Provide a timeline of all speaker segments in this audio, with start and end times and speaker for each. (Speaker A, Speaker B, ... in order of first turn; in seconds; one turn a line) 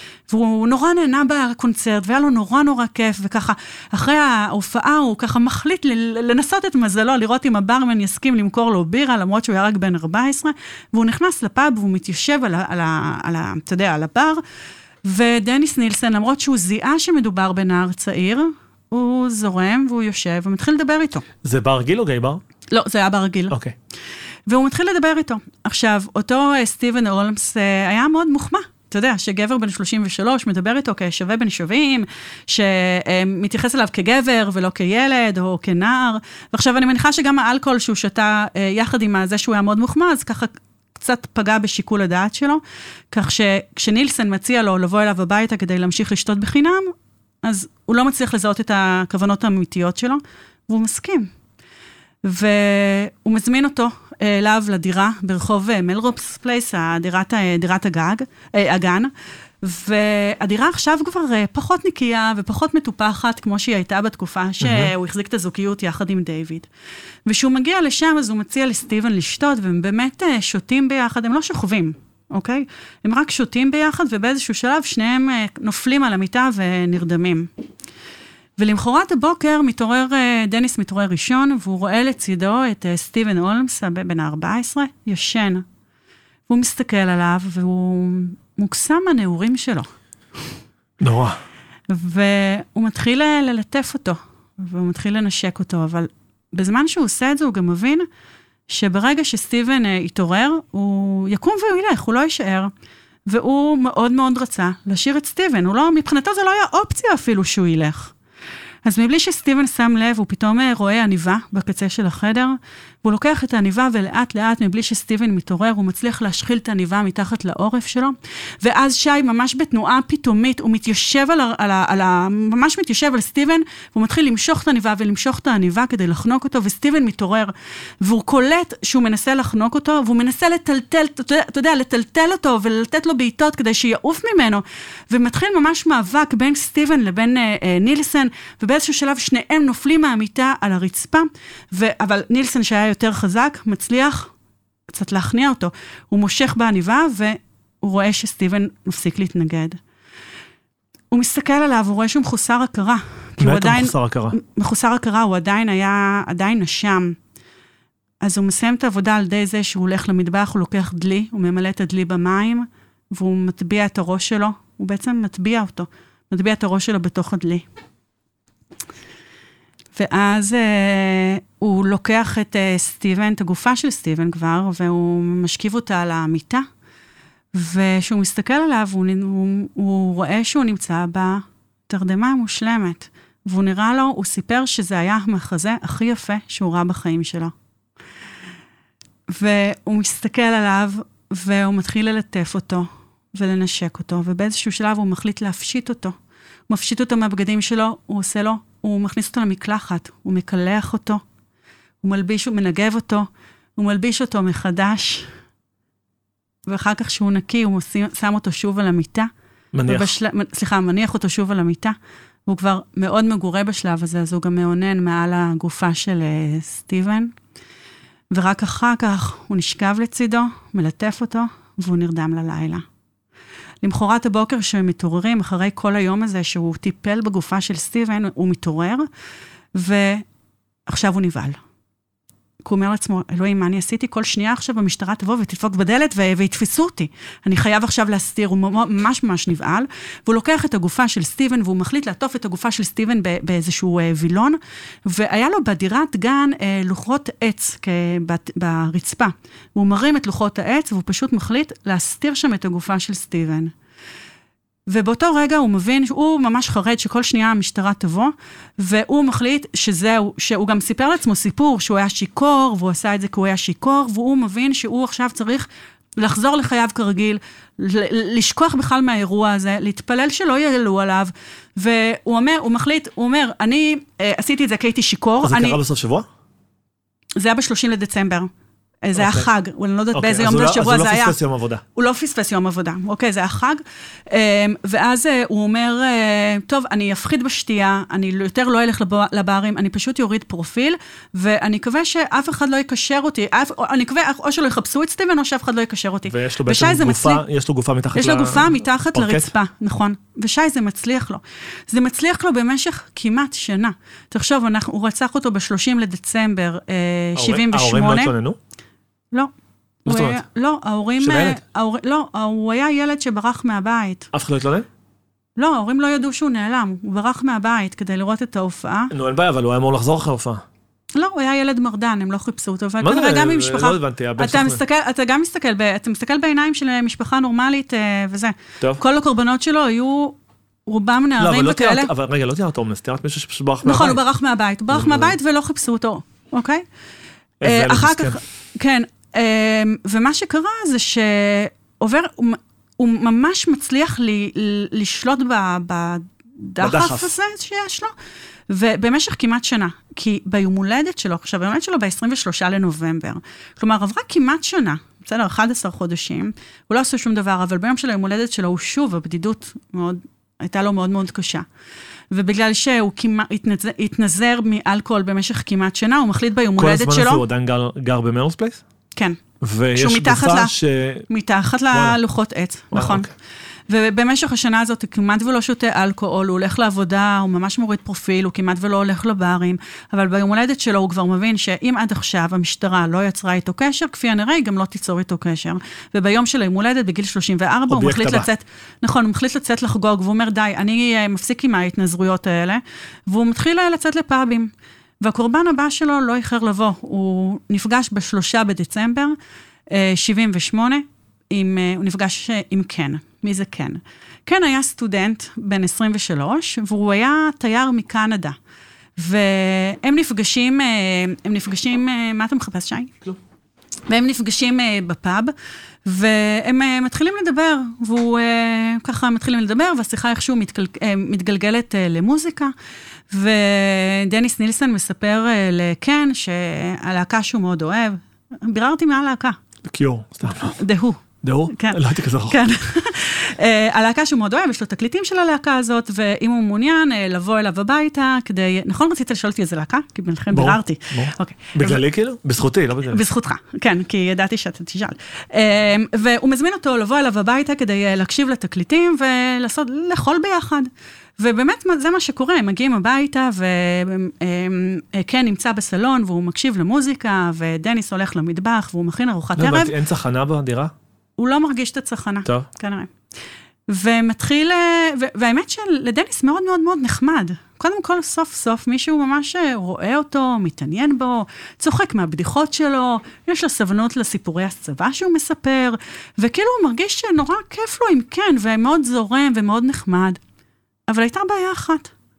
Speaker A: 0.3-14.4
Speaker A: 15.0-21.2
Speaker B: 21.4-22.4
Speaker A: 22.7-23.6
Speaker B: 23.5-23.8
Speaker A: 24.5-51.3
Speaker A: 52.2-59.1
Speaker A: 59.6-66.7
Speaker B: 64.6-64.9
Speaker A: 67.3-77.5
Speaker A: 78.6-85.7
Speaker A: 86.5-89.9
Speaker B: 91.0-91.4
Speaker A: 91.9-98.1
Speaker A: 98.7-102.7
Speaker A: 103.3-108.1
Speaker A: 108.8-144.3
Speaker A: 144.9-149.8
Speaker A: 151.1-157.2
Speaker B: 153.4-154.4
Speaker A: 158.2-167.7
Speaker A: 170.0-176.7
Speaker A: 177.5-187.5
Speaker A: 189.3-196.2
Speaker A: 196.7-201.2
Speaker A: 202.0-205.3
Speaker A: 206.7-209.3
Speaker B: 209.7-210.1
Speaker A: 209.9-217.3
Speaker A: 218.3-222.8
Speaker A: 223.8-229.1
Speaker A: 229.7-230.2
Speaker A: 230.9-231.6
Speaker A: 232.6-253.7
Speaker A: 254.9-275.8
Speaker B: 275.4-276.3
Speaker A: 277.4-278.5
Speaker A: 279.0-281.4
Speaker B: 279.2-279.5
Speaker B: 280.1-281.8
Speaker A: 281.9-297.4
Speaker B: 296.3-299.5
Speaker A: 298.1-308.3
Speaker B: 307.4-308.6
Speaker A: 310.1-314.3
Speaker B: 310.1-310.4
Speaker B: 311.2-311.6
Speaker B: 314.3-314.9
Speaker A: 315.6-319.1
Speaker B: 319.1-320.6
Speaker A: 321.1-332.1
Speaker B: 323.0-324.8
Speaker B: 331.4-334.2
Speaker A: 333.8-336.9
Speaker B: 334.9-335.3
Speaker B: 337.6-338.4
Speaker A: 337.6-348.1
Speaker B: 346.8-347.3
Speaker A: 348.7-361.6
Speaker A: 362.3-367.4
Speaker B: 366.8-368.8
Speaker B: 369.6-371.3
Speaker A: 369.9-370.7
Speaker A: 371.3-373.3
Speaker B: 371.9-372.2
Speaker B: 372.9-373.3
Speaker A: 373.9-399.4
Speaker B: 387.9-388.5
Speaker A: 399.9-408.6
Speaker A: 409.2-413.2
Speaker A: 414.1-415.5
Speaker A: 416.1-422.7
Speaker A: 423.3-429.6
Speaker B: 429.9-430.8
Speaker A: 430.8-442.0
Speaker B: 431.4-432.6
Speaker B: 440.5-443.2
Speaker A: 443.1-459.9
Speaker B: 459.6-460.9
Speaker A: 461.4-463.1
Speaker A: 463.9-480.4
Speaker A: 481.1-482.1